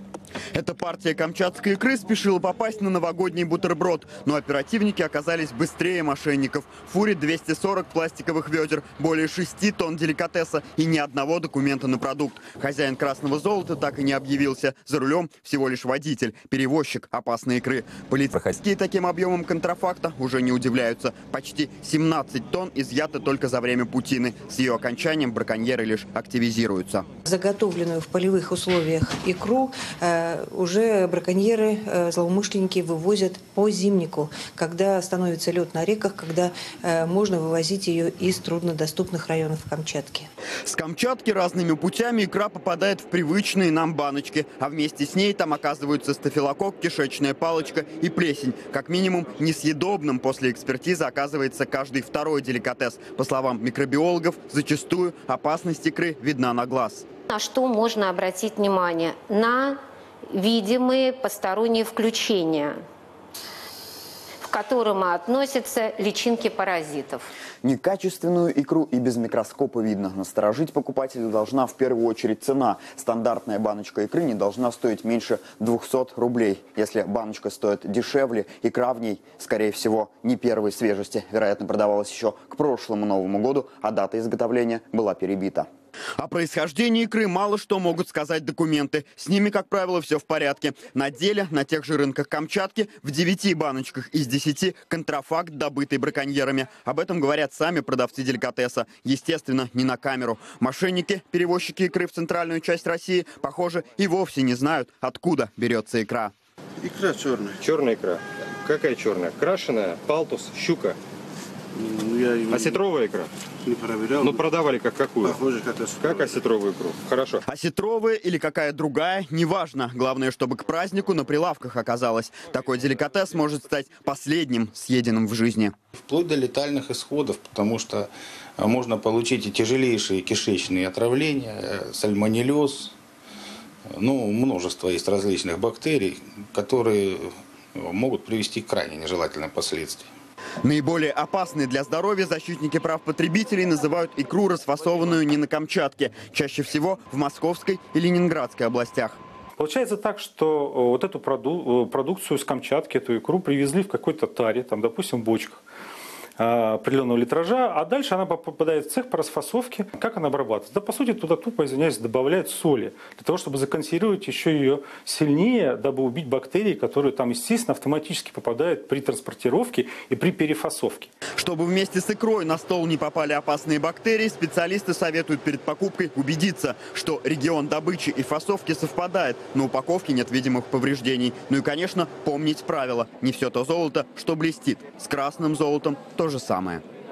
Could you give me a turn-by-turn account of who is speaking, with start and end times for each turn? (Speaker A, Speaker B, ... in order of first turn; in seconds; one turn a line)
Speaker A: 0.5-27.1
Speaker B: 27.3-40.3
Speaker A: 40.7-57.0
Speaker C: 57.3-62.8
Speaker C: 64.4-67.3
Speaker A: 67.6-106.3
Speaker D: 106.8-107.6
Speaker E: 107.6-111.0
Speaker D: 111.8-112.8
Speaker E: 112.6-113.3
Speaker D: 113.6-114.5
Speaker E: 114.3-115.3
Speaker D: 115.2-116.4
Speaker E: 116.0-117.4
Speaker A: 117.5-125.7
Speaker F: 126.0-132.9
Speaker F: 133.9-140.1
Speaker A: 140.6-149.2
Speaker G: 149.6-155.6
Speaker G: 156.4-171.1
Speaker A: 171.4-186.8